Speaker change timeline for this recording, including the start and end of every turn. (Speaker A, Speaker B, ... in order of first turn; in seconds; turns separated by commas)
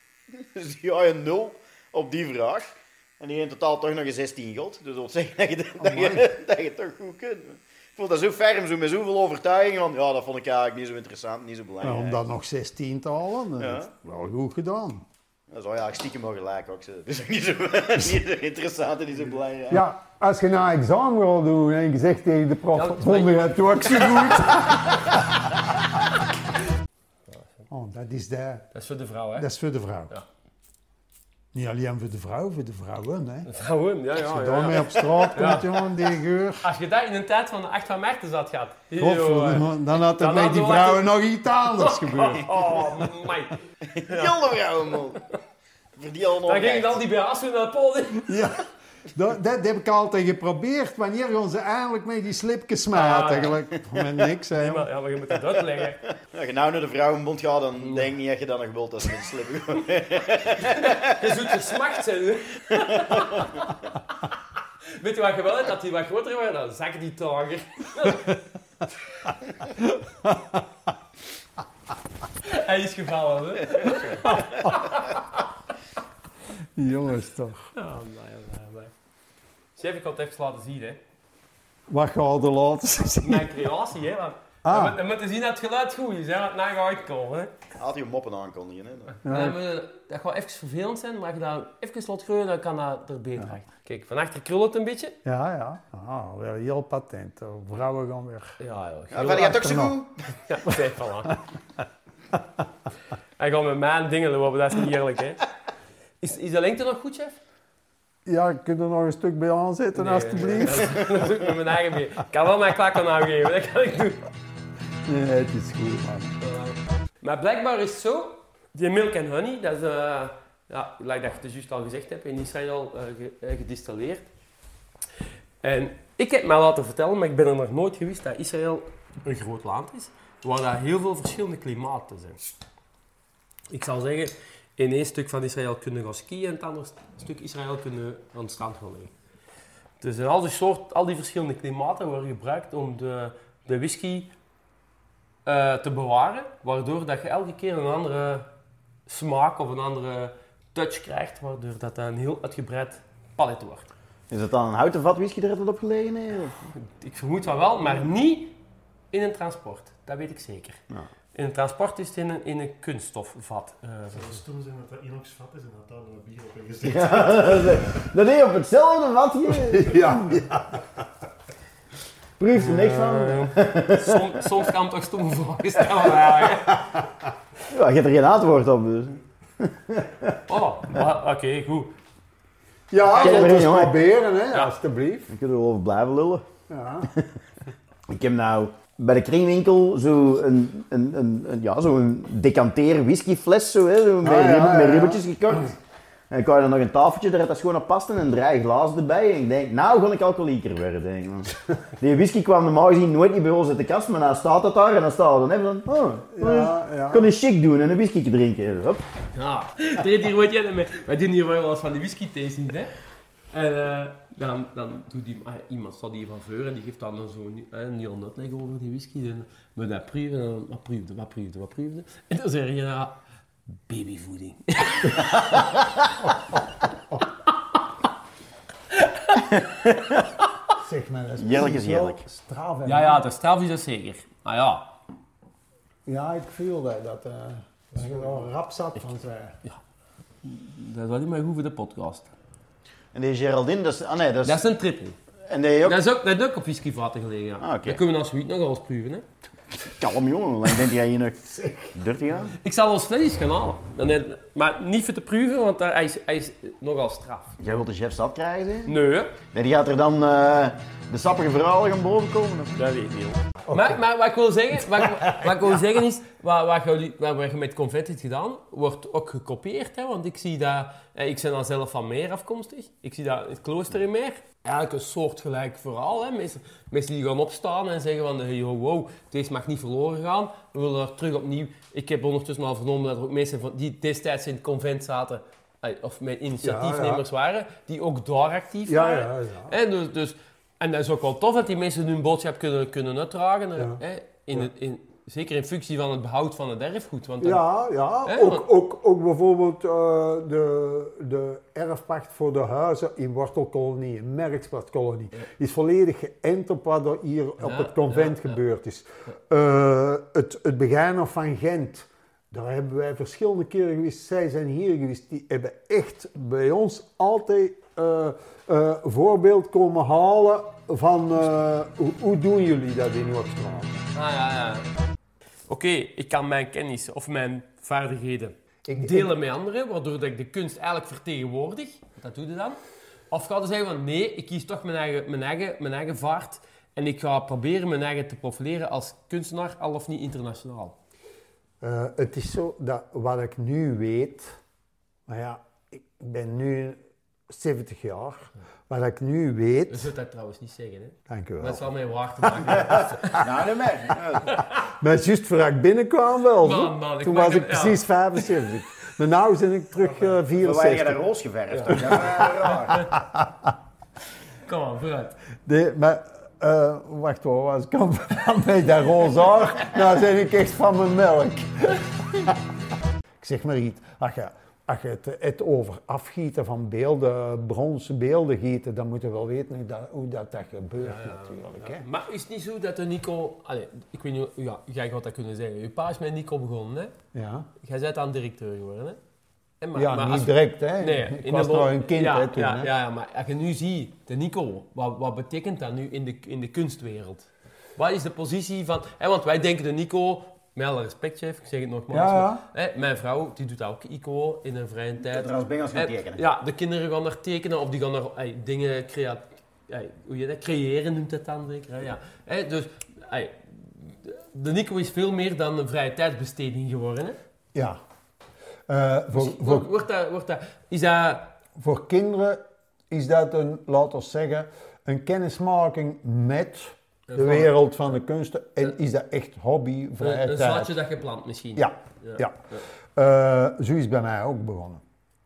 Speaker A: 0.4-12.2, Speaker B: 5.8-6.3, Speaker B: 11.8-15.0, Speaker A: 13.6-13.9, Speaker A: 15.5-19.8, Speaker B: 19.7-25.4, Speaker C: 22.7-24.1, Speaker A: 24.0-24.8, Speaker B: 27.7-28.7, Speaker C: 28.7-29.5, Speaker B: 29.4-30.2, Speaker B: 31.5-33.5, Speaker C: 33.5-35.7, Speaker B: 34.2-36.7, Speaker C: 36.6-41.1, Speaker B: 39.0-43.0, Speaker C: 41.8-43.5, Speaker A: 43.9-45.2, Speaker A: 46.0-47.0, Speaker C: 46.5-48.4, Speaker B: 48.3-54.9, Speaker C: 52.9-53.5, Speaker C: 54.5-56.0, Speaker A: 56.2-61.2, Speaker C: 57.8-58.1, Speaker C: 60.8-63.7, Speaker C: 65.0-68.3, Speaker B: 69.9-70.6, Speaker C: 72.4-75.2, Speaker B: 74.4-74.7, Speaker B: 76.8-77.7, Speaker C: 77.8-78.9, Speaker C: 79.8-81.0, Speaker B: 81.9-83.6, Speaker C: 83.2-87.5, Speaker B: 84.6-85.0, Speaker A: 87.8-89.2, Speaker B: 89.2-89.6, Speaker C: 89.3-95.2, Speaker B: 95.2-98.6, Speaker C: 98.6-99.6, Speaker A: 99.1-100.2, Speaker B: 99.4-100.0, Speaker C: 100.5-101.3, Speaker C: 103.4-105.4, Speaker C: 106.2-107.4, Speaker B: 108.2-111.1, Speaker C: 109.9-114.2, Speaker B: 115.0-116.3, Speaker C: 116.4-124.2, Speaker C: 125.6-132.4, Speaker C: 133.7-139.1, Speaker C: 140.0-144.3, Speaker C: 145.4-148.5, Speaker C: 149.1-153.9, Speaker A: 154.3-156.6, Speaker C: 156.8-158.6, Speaker C: 159.1-160.8, Speaker C: 161.3-164.4, Speaker D: 164.1-167.9, Speaker A: 166.8-170.3, Speaker B: 169.9-170.8, Speaker A: 172.4-174.3, Speaker C: 172.6-176.8, Speaker A: 177.7-180.4, Speaker C: 180.5-181.9, Speaker B: 182.9-185.3, Speaker A: 183.2-184.0, Speaker C: 183.2-183.5, Speaker A: 185.3-186.4, Speaker B: 186.7-187.1, Speaker A: 188.1-195.8, Speaker B: 194.2-195.2, Speaker A: 196.3-209.0, Speaker B: 206.4-207.3, Speaker C: 209.3-212.9, Speaker C: 213.5-223.2, Speaker C: 223.9-225.6, Speaker A: 229.5-230.2, Speaker B: 230.8-233.2, Speaker A: 231.4-232.2, Speaker C: 232.8-234.9, Speaker B: 236.1-239.6, Speaker D: 237.9-238.5, Speaker C: 240.4-242.3, Speaker A: 243.1-244.6, Speaker C: 244.4-245.2, Speaker A: 245.5-246.0, Speaker C: 245.8-249.2, Speaker A: 247.6-248.0, Speaker A: 249.8-252.5, Speaker C: 252.6-257.6, Speaker A: 257.6-258.9, Speaker C: 258.9-259.3, Speaker A: 259.5-262.8, Speaker C: 262.8-297.6, Speaker B: 263.7-264.0, Speaker B: 286.6-287.2, Speaker B: 288.9-289.7, Speaker B: 293.8-294.0, Speaker B: 297.4-324.0, Speaker C: 298.2-298.6, Speaker C: 307.6-308.5, Speaker C: 324.1-324.9, Speaker C: 325.7-332.8, Speaker B: 328.9-329.3, Speaker C: 333.3-341.0, Speaker B: 341.8-344.6, Speaker B: 345.3-350.1, Speaker C: 349.9-353.4, Speaker B: 351.3-351.9, Speaker B: 352.4-352.9, Speaker A: 353.3-354.5, Speaker C: 354.5-354.7, Speaker B: 355.0-361.2, Speaker C: 356.6-358.0, Speaker A: 360.6-363.1, Speaker C: 361.7-362.0, Speaker B: 362.1-363.7, Speaker C: 364.6-365.4, Speaker B: 365.6-372.7, Speaker B: 373.4-382.1, Speaker C: 381.0-387.1, Speaker B: 387.3-387.7, Speaker C: 387.8-389.2, Speaker C: 389.8-417.4, Speaker B: 389.9-392.9, Speaker B: 402.1-402.6, Speaker A: 405.3-406.4, Speaker B: 417.7-418.0, Speaker B: 418.9-419.9, Speaker C: 419.3-421.5, Speaker B: 421.8-430.9, Speaker C: 427.3-427.7, Speaker C: 430.2-432.8, Speaker B: 431.8-435.0